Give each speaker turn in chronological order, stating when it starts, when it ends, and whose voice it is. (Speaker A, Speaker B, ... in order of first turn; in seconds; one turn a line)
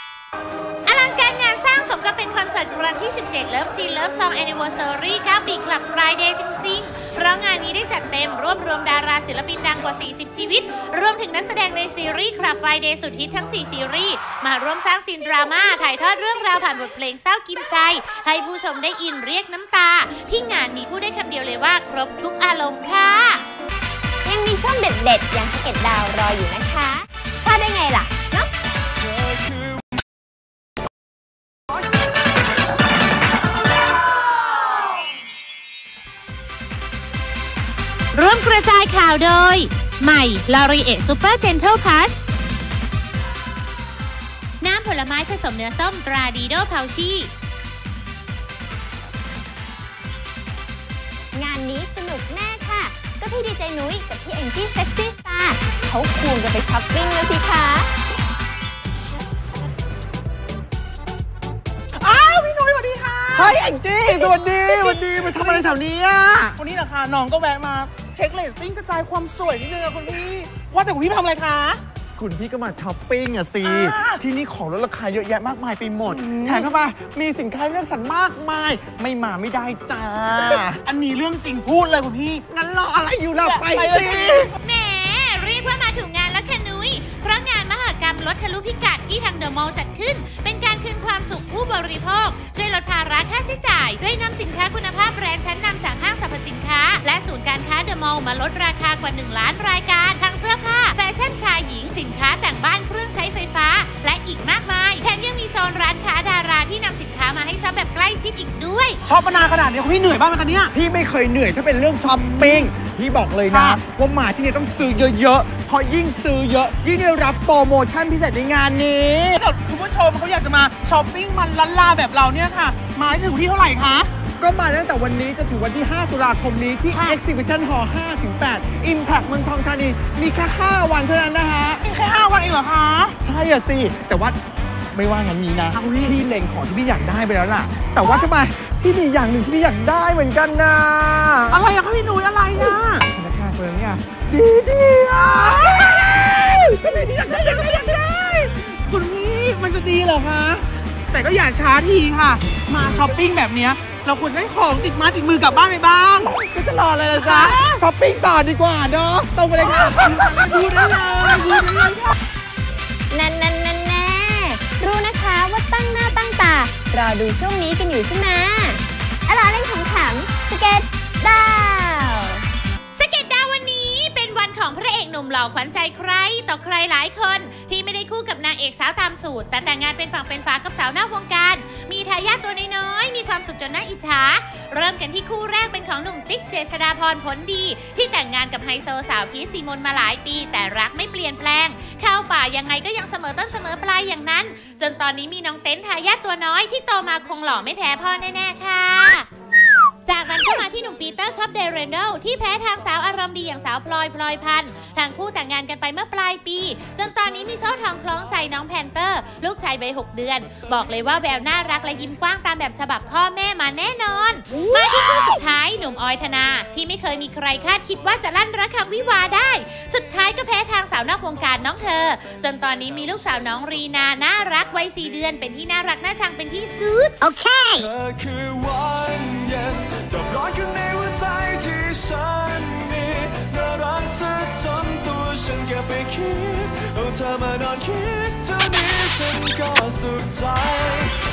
Speaker A: 0.8-23.4
Speaker B: 24.2-28.5
Speaker A: 38.1-42.2
Speaker A: 44.6-47.3
Speaker B: 51.3-57.9
Speaker C: 62.0-63.6
Speaker D: 63.3-66.6
Speaker C: 64.1-65.8
Speaker C: 66.6-71.8
Speaker D: 72.2-80.8
Speaker C: 73.6-74.2
Speaker C: 76.1-76.6
Speaker C: 80.9-82.4
Speaker D: 82.5-84.5
Speaker C: 83.4-84.5
Speaker A: 84.6-109.0
Speaker C: 109.1-110.7
Speaker D: 110.7-119.4
Speaker C: 113.5-113.8
Speaker C: 119.4-124.1
Speaker D: 124.4-131.8
Speaker C: 126.9-127.2
Speaker C: 131.8-133.2
Speaker D: 133.2-134.4
Speaker D: 134.9-141.7
Speaker C: 135.7-136.2
Speaker C: 141.5-143.1
Speaker D: 143.1-148.5
Speaker C: 146.6-148.1
Speaker C: 148.9-156.4
Speaker D: 156.4-158.8
Speaker C: 157.0-157.8
Speaker C: 158.8-162.1
Speaker D: 160.0-161.0
Speaker B: 163.1-172.4
Speaker A: 172.9-199.3
Speaker A: 200.1-227.2
Speaker E: 227.7-241.1